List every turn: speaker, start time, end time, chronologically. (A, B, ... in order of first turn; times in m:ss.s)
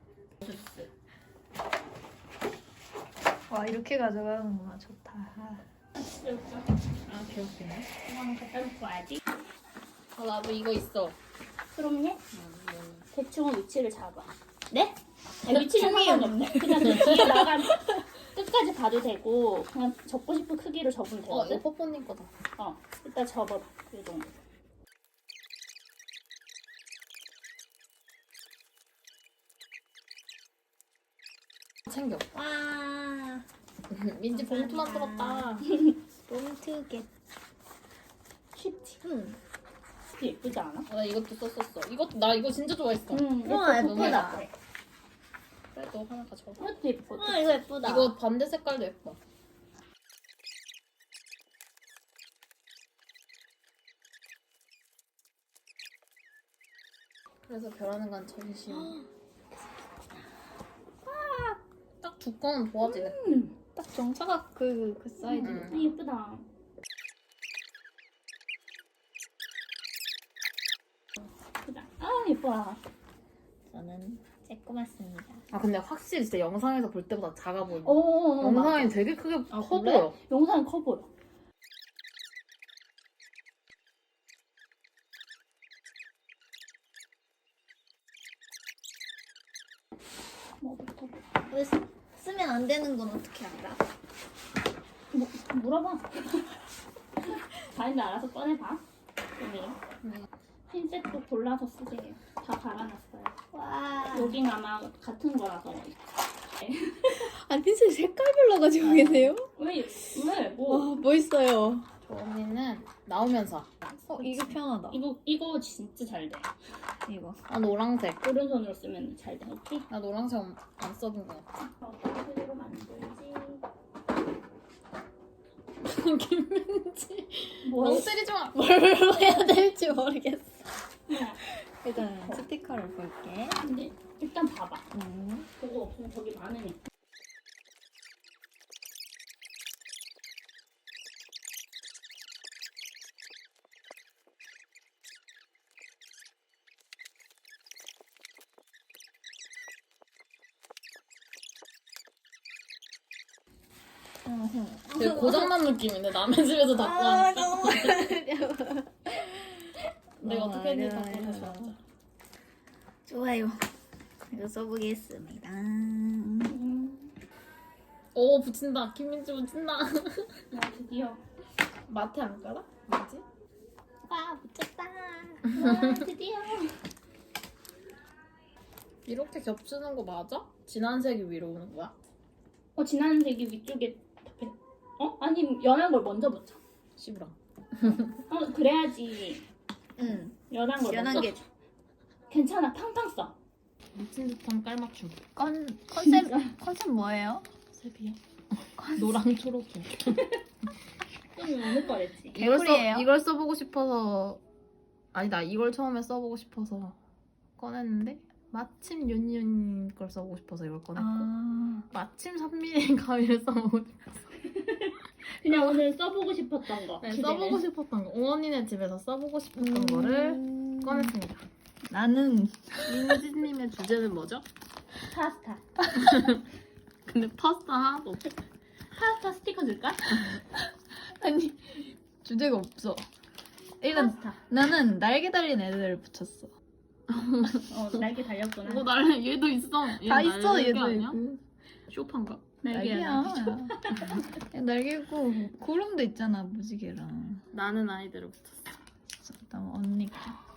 0:00.4-0:00.9 A
0:03.5-0:05.6 B
0:06.0-0:06.7 A
0:07.0-0:07.9 C
0:08.0-0:09.2 A
0:10.1-0:11.2 C
0:11.7-0:12.2 A
0:12.3-0:13.0 C
0:13.1-0:14.3 A
0:14.7-0:15.0 B
0:15.4-0:21.6 A
0:15.5-0:18.0 B
0:16.9-0:17.4 C
0:21.3-0:22.3 C
0:22.6-0:24.3 A
0:31.9-0:32.2 C
0:32.3-0:33.4 B
0:33.9-0:35.7 C
0:34.3-0:35.6 B
0:36.3-0:37.1 B
0:38.9-0:39.4 B
0:40.1-0:40.9 A
0:40.9-0:44.4 C
0:43.1-0:44.5 A
0:43.4-0:44.4 B
0:45.7-0:46.7 C
0:46.6-0:47.7 A
0:47.2-0:48.2 B
0:47.7-0:49.2 C
0:57.5-0:59.0 C
0:58.7-0:59.1 B
1:01.0-1:01.6 B
1:02.0-1:03.4 C
1:02.8-1:03.5 A
1:03.8-1:05.7 B
1:05.3-1:06.0 C
1:05.7-1:06.5 A
1:11.6-1:12.8 A
1:13.7-1:15.4 B
1:15.5-1:20.2 C
1:17.8-1:18.9 A
1:19.5-1:21.1 A
1:30.6-1:31.2 A
1:31.5-1:33.8 B
1:35.1-1:36.4 A
1:37.2-1:38.8 A
1:39.4-1:39.8 A
1:40.7-1:43.3 A
1:43.5-1:44.4 B
1:44.1-1:47.3 A
1:47.1-1:49.5 B
1:48.8-1:49.4 C
1:49.5-1:51.0 A
1:50.7-1:51.9 B
1:52.0-1:53.7 C
1:53.9-1:56.5 A
1:54.1-1:55.0 B
1:57.0-1:57.4 B
1:57.5-1:58.2 C
1:58.2-1:59.9 A
1:59.9-2:01.4 C
2:01.7-2:03.6 A
2:05.8-2:08.6 C
2:07.6-2:08.1 A
2:07.8-2:10.7 B
2:11.1-2:11.4 A
2:11.4-2:13.6 B
2:13.6-2:14.8 A
2:14.9-2:15.5 B
2:15.6-2:16.8 A
2:34.2-2:35.5 B
2:34.9-2:38.1 C
2:36.7-2:41.7 B
2:40.2-2:41.8 C
2:43.0-2:43.7 B
2:44.3-2:46.6 B
2:46.4-2:47.1 A
2:48.1-2:50.4 C
2:50.5-2:51.2 A
2:51.9-2:53.2 C
2:54.1-2:55.5 B
2:55.5-2:56.8 A
2:55.5-2:56.0 C
2:59.0-3:02.0 C
3:02.8-3:06.6 A
3:07.0-3:08.2 C
3:08.3-3:09.4 A
3:10.0-3:11.4 B
3:10.5-3:11.4 A
3:12.3-3:13.3 A
3:13.9-3:15.2 C
3:15.4-3:17.4 B
3:16.0-3:16.5 A
3:17.7-3:18.2 C
3:18.8-3:19.2 B
3:18.9-3:20.2 C
3:20.0-3:20.4 A
3:21.3-3:22.4 A
3:22.3-3:24.4 C
3:22.4-3:23.1 B
3:25.1-3:27.0 C
3:27.6-3:31.3 C
3:30.9-3:31.8 B
3:31.9-3:34.2 C
3:34.4-3:37.6 A
3:37.0-3:41.4 C
3:39.6-3:41.1 B
3:41.9-3:43.0 B
3:42.8-3:44.4 C
3:45.0-3:45.6 A
3:45.9-3:46.4 C
3:47.0-3:48.3 C
3:48.9-3:50.4 A
3:51.0-3:53.1 B
3:53.8-3:56.5 B
3:53.9-3:54.4 A
3:57.1-3:58.0 C
3:57.6-3:58.9 A
3:58.6-4:01.2 C
4:00.0-4:01.4 B
4:01.9-4:02.4 C
4:02.6-4:04.2 A
4:02.7-4:07.4 B
4:07.5-4:08.7 C
4:09.2-4:10.4 B